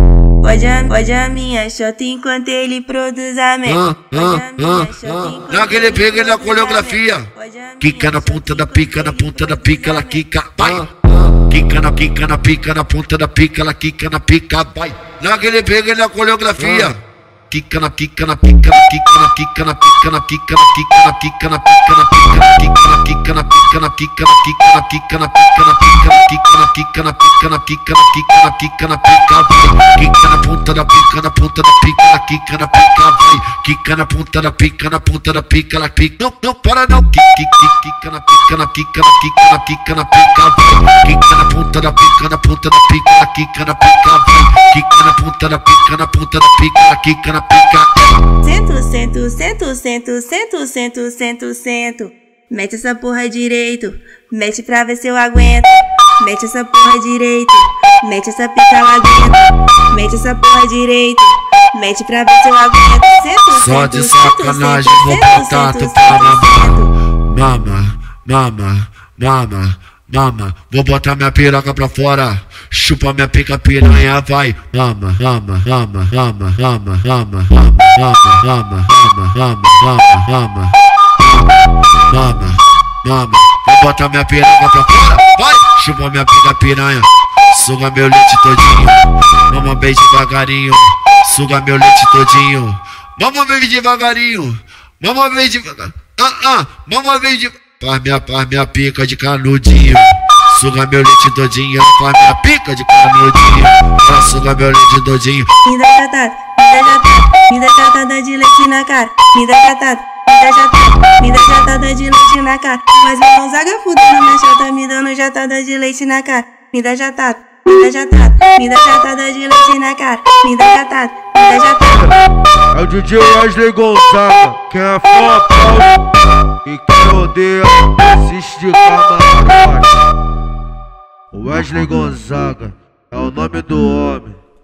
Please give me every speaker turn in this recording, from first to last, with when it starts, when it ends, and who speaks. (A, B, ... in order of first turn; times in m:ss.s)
0:00.4-0:10.2 A
0:03.7-0:07.3 B
0:07.8-0:17.0 B
0:17.5-0:48.1 B
0:48.4-1:06.9 A
1:03.5-1:45.5 B
1:45.6-2:02.2 A
2:02.7-2:05.9 C
2:06.6-2:09.9 C
2:11.3-2:14.4 C